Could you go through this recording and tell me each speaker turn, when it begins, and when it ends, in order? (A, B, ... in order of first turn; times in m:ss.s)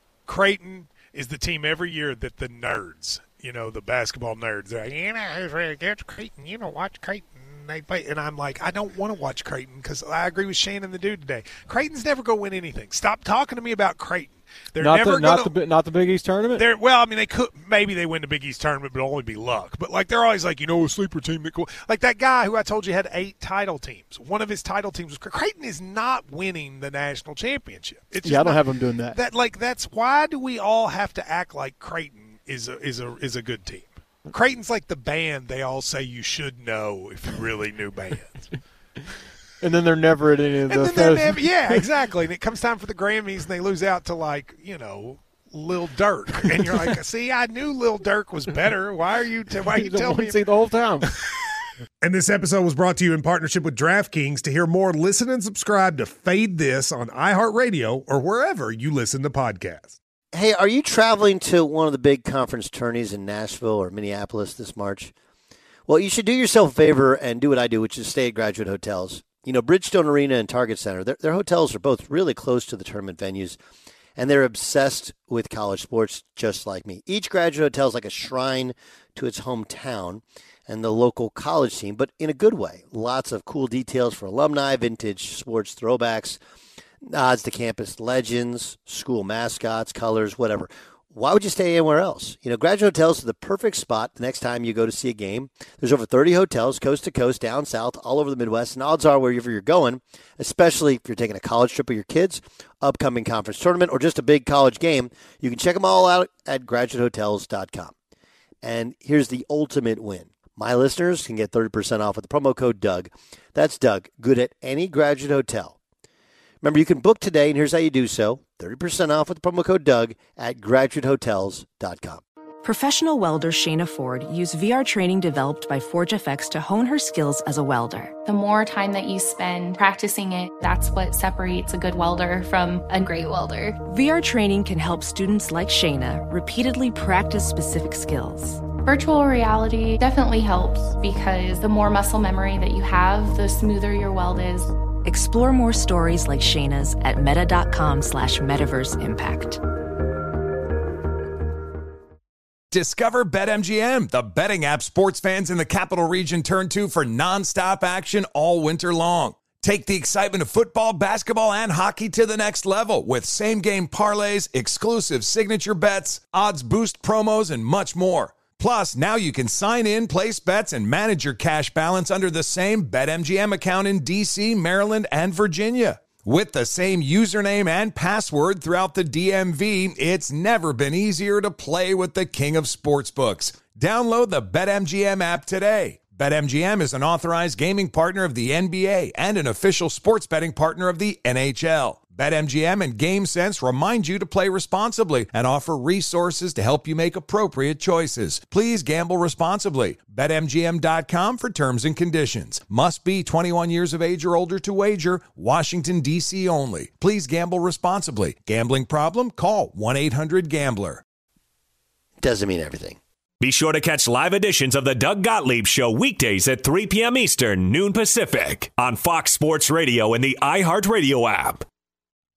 0:00.3-0:15.6 A
0:14.8-0:16.7 B
0:16.5-0:38.5 A
0:28.2-0:29.2 B
0:39.6-0:41.8 B
0:40.6-0:50.7 A
0:49.7-0:51.1 B
0:52.0-1:00.0 C
1:00.3-1:05.1 D
1:05.9-1:13.6 D
1:14.2-1:26.4 D
1:27.0-1:47.9 D
1:48.6-1:55.8 D
1:56.6-2:02.2 D
2:02.6-2:08.1 E
2:08.2-2:13.8 F
2:13.9-2:18.7 E
2:18.8-2:24.7 F
2:25.0-2:29.6 E
2:32.7-3:31.0 G
3:32.2-3:33.0 D
3:33.4-3:41.6 H